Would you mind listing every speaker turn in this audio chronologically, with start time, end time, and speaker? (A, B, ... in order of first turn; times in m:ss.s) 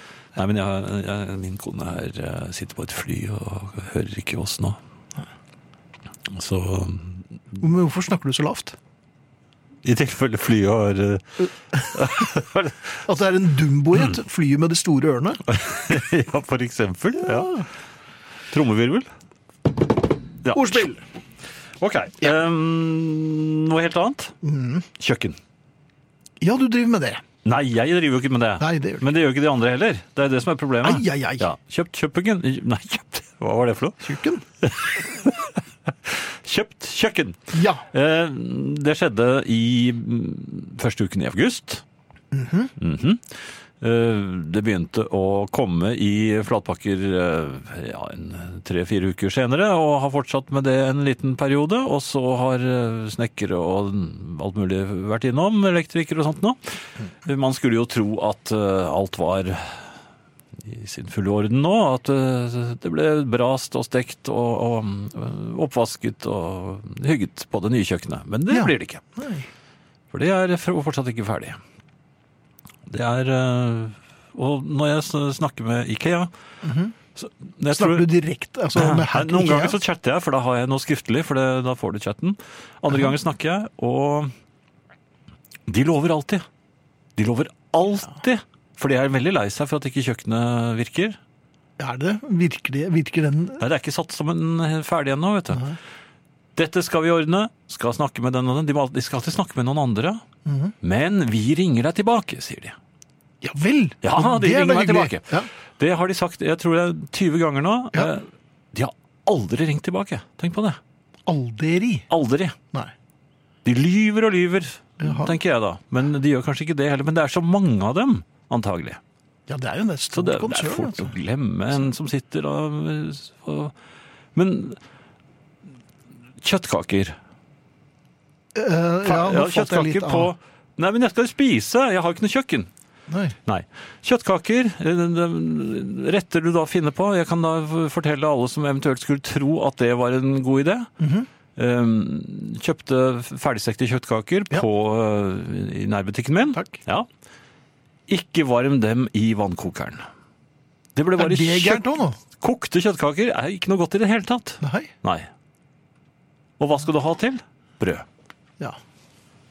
0:00.3-0:04.8 A
0:06.2-0:07.2 A
0:07.6-0:08.8 B
0:09.8-0:12.9 A
0:13.0-0:15.4 B
0:15.5-0:17.6 A
0:17.2-0:17.7 B
0:18.5-0:19.1 A
0:20.4-0:20.9 A
0:20.5-0:21.0 B
0:21.8-0:24.3 A
0:24.4-0:24.8 B
0:25.0-0:25.4 A
0:26.4-0:27.2 B
0:27.4-0:41.8 A
0:28.6-0:29.0 B
0:30.8-0:31.5 B
0:34.0-0:34.4 B
0:37.5-0:37.9 B
0:42.3-0:42.7 B
0:42.8-0:43.2 A
0:43.8-0:59.9 A
1:00.6-1:09.0 A
1:08.5-1:09.5 B
1:10.1-1:11.6 A
1:12.9-1:16.3 A
1:16.6-1:16.9 B
1:17.2-1:18.0 A
1:17.7-1:19.8 B
1:18.7-1:24.3 A
1:25.7-1:26.4 A
1:27.2-1:31.2 A
1:31.8-1:33.6 B
1:33.6-1:35.7 A
1:35.5-1:35.8 B
1:36.6-1:40.2 A
1:40.4-1:40.7 B
1:40.8-1:42.8 A
1:43.4-1:45.5 B
1:44.0-1:50.8 A
1:51.3-1:52.1 B
1:52.1-1:52.6 A
1:53.6-1:59.0 A
1:55.0-1:55.3 B
1:59.5-2:01.1 B
2:00.1-2:03.7 A
2:04.3-2:04.8 A
2:06.4-2:07.2 A
2:08.5-2:10.3 B
2:09.0-2:12.7 A
2:13.1-2:13.4 B
2:13.4-2:20.9 A
2:21.0-2:21.3 B
2:21.6-2:27.1 A
2:26.5-2:26.8 B
2:28.1-2:30.0 A
2:30.9-2:31.8 A
2:31.2-2:32.2 B
2:32.4-2:35.3 A
2:34.6-2:34.9 B
2:36.6-2:38.0 A